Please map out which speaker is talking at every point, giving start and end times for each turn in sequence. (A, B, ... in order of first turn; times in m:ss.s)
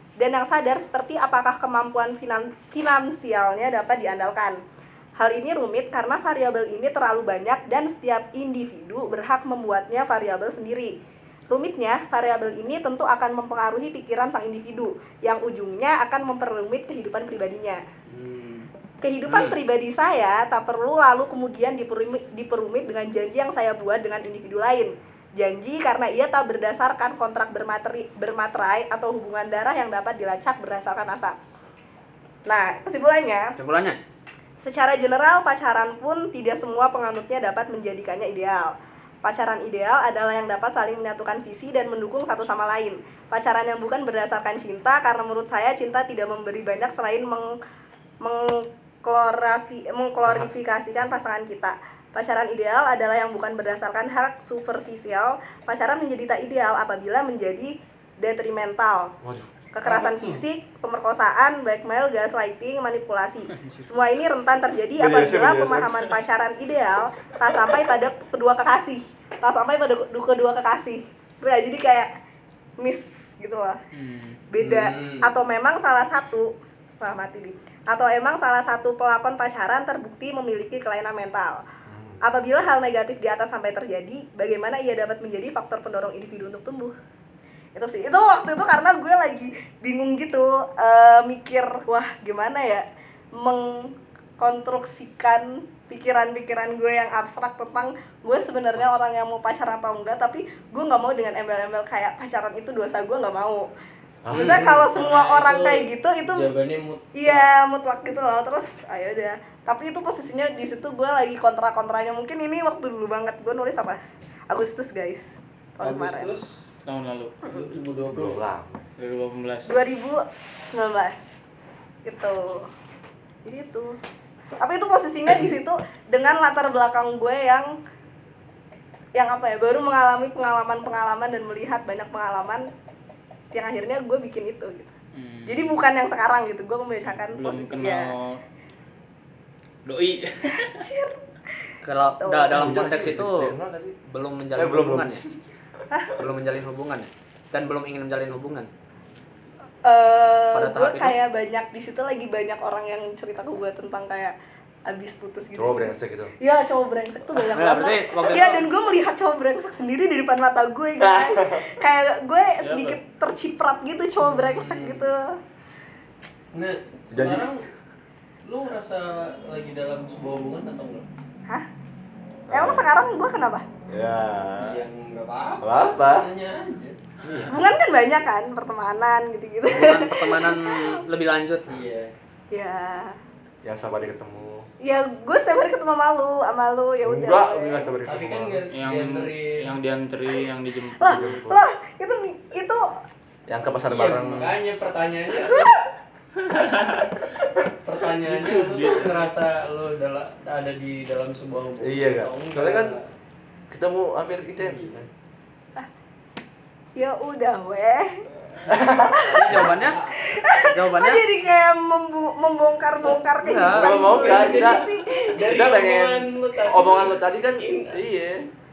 0:00.2-0:04.6 A
0:05.2-0:10.9 A
0:11.5-0:17.8 A
0:18.1-0:18.6 B
0:19.0-0:31.4 A
0:19.3-0:19.6 C
0:32.4-0:33.5 A
0:33.6-0:34.0 C
0:34.6-0:47.5 A
0:48.2-0:59.1 A
0:59.2-0:59.5 D
0:59.7-1:12.1 A
0:59.8-1:00.4 E
1:03.6-1:03.8 B
1:05.0-1:06.1 D
1:12.8-1:13.8 A
1:13.9-1:14.4 B
1:14.5-1:21.6 A
1:14.6-1:15.4 E
1:21.9-1:22.2 D
1:22.2-1:26.9 A
1:27.7-1:43.7 A
1:44.2-1:44.8 D
1:44.3-1:47.5 E
1:44.3-1:46.5 A
1:47.1-1:56.3 A
1:55.8-1:56.5 E
1:56.8-1:57.4 B
1:57.4-1:57.7 A
1:57.4-1:58.4 E
1:58.1-1:58.8 D
1:59.0-1:59.7 B
1:59.7-2:01.2 A
2:02.0-2:02.7 A
2:03.4-2:04.0 A
2:04.6-2:07.7 A
2:09.1-2:12.7 A
2:13.5-2:14.9 A
2:15.1-2:15.8 B
2:15.5-2:18.1 A
2:17.0-2:18.4 B
2:19.8-2:20.8 B
2:20.7-2:21.2 A
2:21.8-2:23.5 C
2:22.2-2:22.8 A
2:22.5-2:24.0 D
2:24.1-2:25.2 C
2:24.5-2:25.3 D
2:26.2-2:28.7 C
2:29.8-2:34.3 A
2:30.5-2:31.2 C
2:34.8-2:45.4 A
2:35.6-2:36.3 D
2:37.5-2:38.7 C
2:41.0-2:41.8 D
2:42.6-2:43.0 B
2:44.2-2:45.1 E
2:46.5-2:47.7 E
2:47.1-2:47.5 D
2:48.4-2:51.0 E
2:52.5-2:52.9 D
2:52.5-2:53.6 A
2:53.9-2:54.8 D
2:54.6-2:57.5 E
2:55.6-2:56.3 D
2:57.2-2:57.6 B
2:57.5-3:01.0 A
2:59.7-3:01.7 C
3:01.7-3:02.1 E
3:02.5-3:03.2 A
3:03.6-3:04.7 D
3:04.8-3:07.9 A
3:07.0-3:08.6 D
3:08.0-3:09.7 E
3:08.7-3:11.4 B
3:11.0-3:12.8 A
3:11.0-3:11.6 D
3:13.5-3:14.6 D
3:13.9-3:15.7 E
3:16.4-3:17.2 B
3:17.8-3:23.1 E
3:18.2-3:19.3 B
3:21.8-3:23.0 D
3:23.7-3:25.1 D
3:24.6-3:24.9 E
3:27.0-3:28.2 A
3:28.6-3:29.7 D
3:28.9-3:29.6 A
3:29.3-3:30.0 C
3:29.4-3:30.2 E
3:30.2-3:35.5 A
3:30.6-3:31.2 C
3:33.0-3:38.0 E
3:33.4-3:34.2 C
3:33.7-3:34.8 D
3:35.4-3:38.5 D